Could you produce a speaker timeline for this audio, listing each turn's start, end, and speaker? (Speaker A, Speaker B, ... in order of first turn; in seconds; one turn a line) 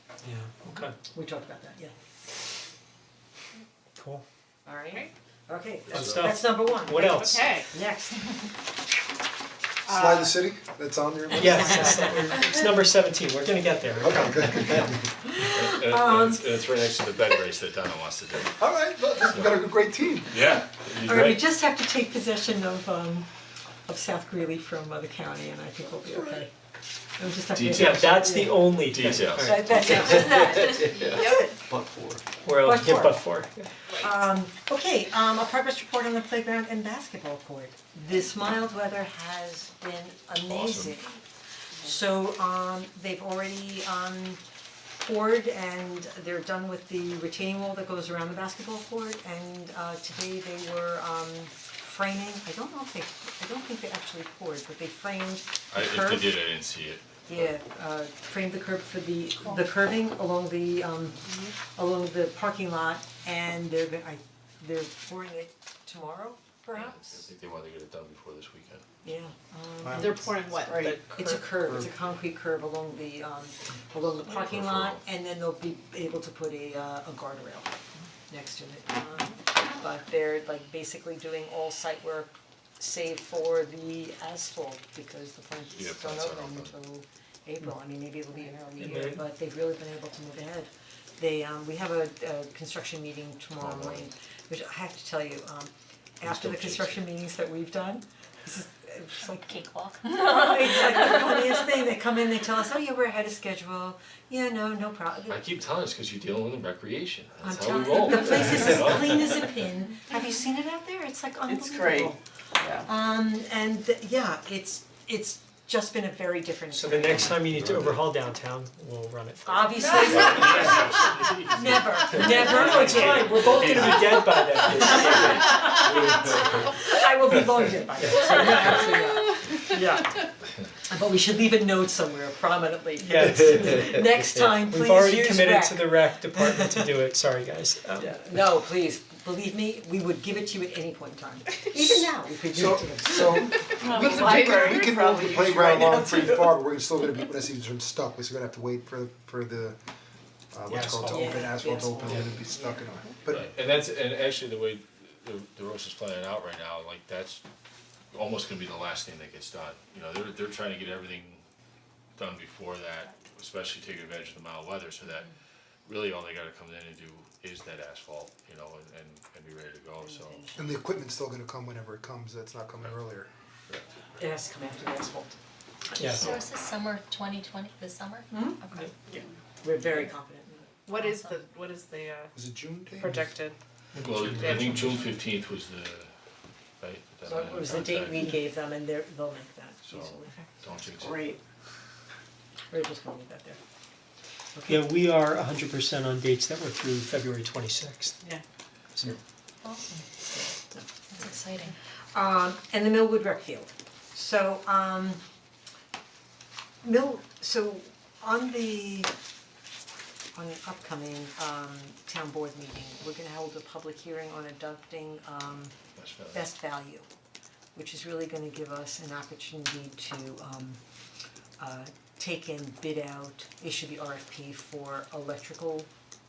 Speaker A: 0.2-0.9
Speaker B: 1.1-1.9
Speaker A: 4.0-4.2
Speaker B: 4.7-8.5
Speaker C: 5.9-6.3
Speaker A: 5.9-7.5
Speaker D: 6.9-7.7
Speaker D: 9.9-10.3
Speaker E: 9.9-11.8
Speaker A: 11.3-14.9
Speaker B: 11.3-12.3
Speaker E: 14.0-14.9
Speaker B: 14.7-16.5
Speaker C: 15.4-18.6
Speaker E: 18.6-20.5
Speaker C: 19.2-19.7
Speaker C: 20.2-21.4
Speaker B: 21.0-23.3
Speaker B: 23.9-26.5
Speaker E: 26.0-26.5
Speaker B: 27.2-28.8
Speaker C: 27.5-28.1
Speaker A: 27.7-30.5
Speaker C: 28.9-30.1
Speaker B: 29.4-31.5
Speaker D: 30.9-31.6
Speaker A: 32.4-33.6
Speaker B: 32.6-33.2
Speaker B: 33.9-41.2
Speaker C: 40.4-41.0
Speaker B: 41.8-44.4
Speaker B: 45.0-56.4
Speaker C: 55.7-57.6
Speaker B: 57.3-67.3
Speaker C: 66.7-68.9
Speaker B: 69.0-70.3
Speaker E: 69.8-70.4
Speaker D: 70.0-71.7
Speaker F: 70.7-71.0
Speaker B: 71.1-77.7
Speaker C: 74.2-75.0
Speaker B: 78.3-99.5
Speaker C: 85.7-86.8
Speaker A: 88.8-89.2
Speaker C: 93.6-94.1
Speaker C: 96.2-97.1
Speaker G: 99.3-100.1
Speaker B: 100.0-105.4
Speaker C: 105.3-109.5
Speaker B: 107.4-112.2
Speaker F: 111.5-112.9
Speaker B: 112.8-117.5
Speaker A: 116.7-121.0
Speaker C: 117.3-118.0
Speaker B: 119.5-130.3
Speaker C: 120.0-124.2
Speaker D: 120.0-120.4
Speaker A: 122.1-126.6
Speaker A: 128.0-128.9
Speaker A: 129.7-130.0
Speaker B: 130.9-136.7
Speaker A: 133.0-133.9
Speaker A: 134.6-138.1
Speaker B: 138.0-143.8
Speaker E: 142.5-149.8
Speaker D: 143.8-146.4
Speaker F: 144.1-146.2
Speaker E: 150.5-153.5
Speaker A: 150.7-151.4
Speaker B: 151.1-152.9
Speaker C: 153.3-157.4
Speaker C: 158.1-161.4
Speaker C: 162.2-165.3
Speaker C: 165.8-170.5
Speaker B: 170.0-170.8
Speaker E: 170.6-173.3
Speaker B: 174.2-175.4
Speaker A: 176.0-176.4
Speaker C: 176.0-176.5
Speaker G: 176.2-178.9
Speaker B: 178.3-181.0
Speaker D: 180.9-182.3
Speaker E: 182.3-183.2
Speaker D: 183.0-183.6
Speaker A: 183.9-185.0
Speaker C: 184.0-186.1
Speaker D: 184.4-185.2
Speaker C: 186.8-188.4
Speaker B: 187.2-190.3
Speaker C: 189.8-191.3
Speaker F: 191.0-191.4
Speaker B: 192.7-193.6
Speaker B: 194.5-194.9
Speaker A: 194.7-198.2
Speaker G: 199.6-200.1
Speaker B: 200.4-200.9
Speaker G: 201.1-201.8
Speaker B: 202.1-205.2
Speaker B: 206.8-209.1
Speaker B: 210.3-215.7
Speaker C: 216.0-216.5
Speaker B: 216.3-217.1
Speaker B: 217.8-220.8
Speaker B: 221.6-225.9